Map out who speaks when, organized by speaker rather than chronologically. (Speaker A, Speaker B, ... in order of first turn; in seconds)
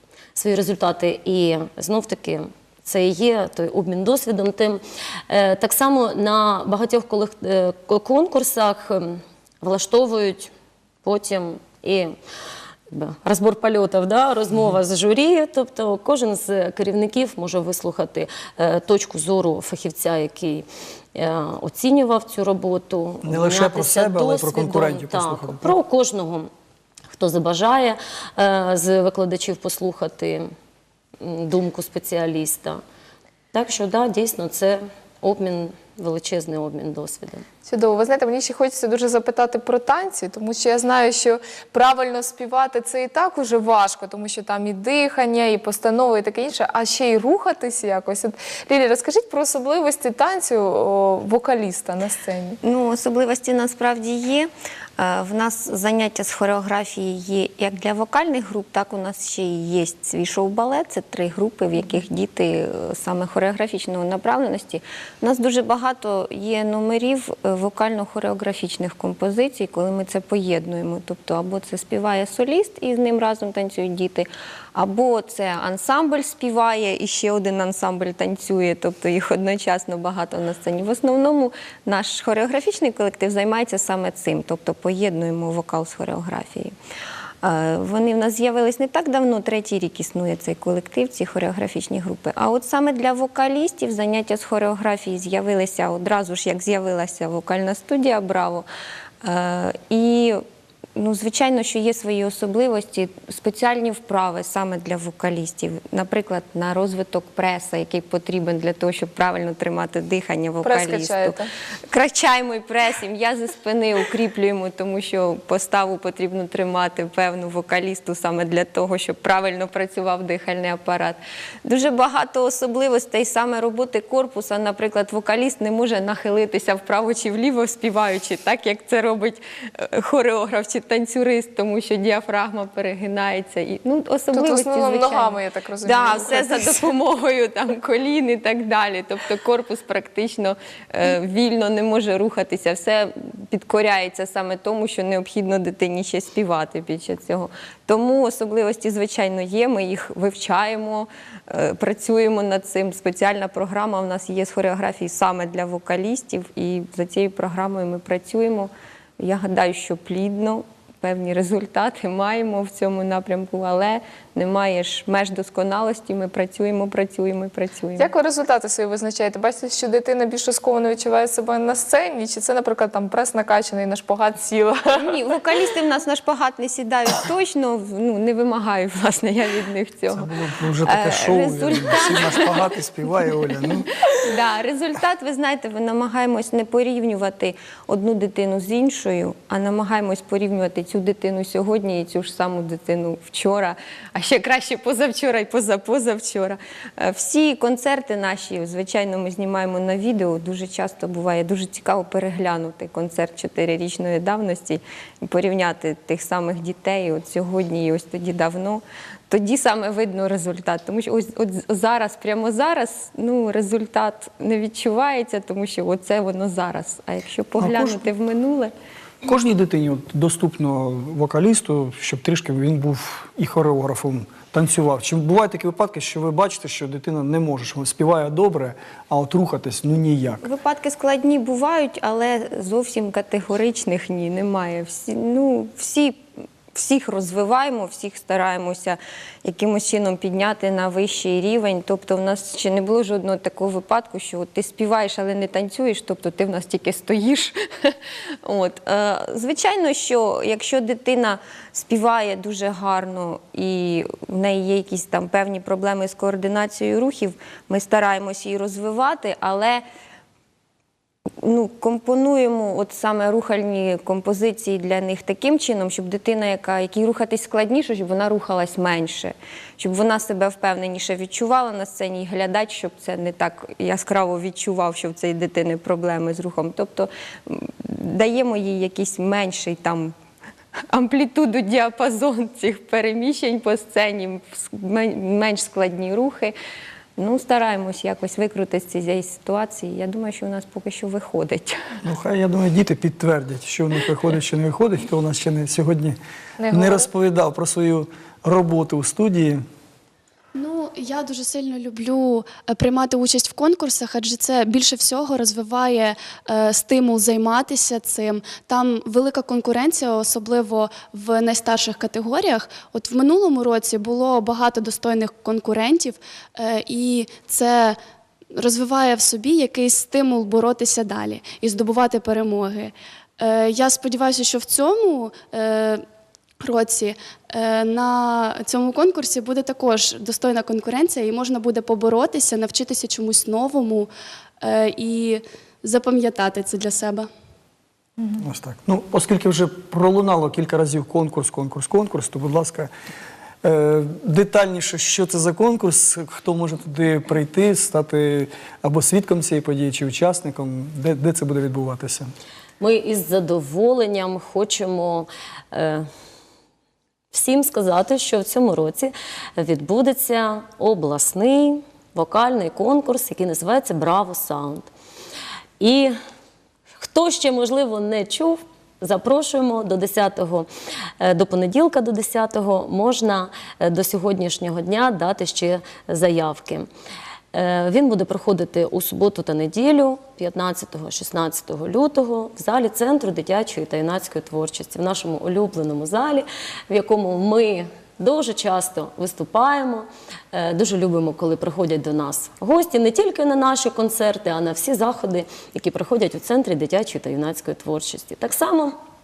Speaker A: 0.3-10.5, 11.0-12.1, 12.9-26.5, 27.1-30.5, 31.2-32.8, 33.5-37.4, 352.8-356.1, 357.3-364.9, 365.8-366.1, 367.0-370.7, 371.2-376.9, 377.5-398.9
Speaker B: 23.2-25.8, 180.1-183.9, 217.6-218.1, 219.2-230.4, 292.0-296.2, 296.7-299.6, 338.4-342.9, 343.6-352.3
Speaker C: 37.6-52.6, 110.6-111.5, 134.3-136.8, 168.0-175.1, 296.6-297.1
Speaker D: 52.6-86.7, 87.4-98.7, 99.2-100.4, 101.0-111.3, 111.9-168.1, 174.9-180.3, 180.8-182.8, 184.1-218.7, 230.4-259.8, 261.4-280.1, 280.9-286.6, 287.2-292.0
Speaker E: 300.5-318.0, 318.5-326.0, 326.6-337.3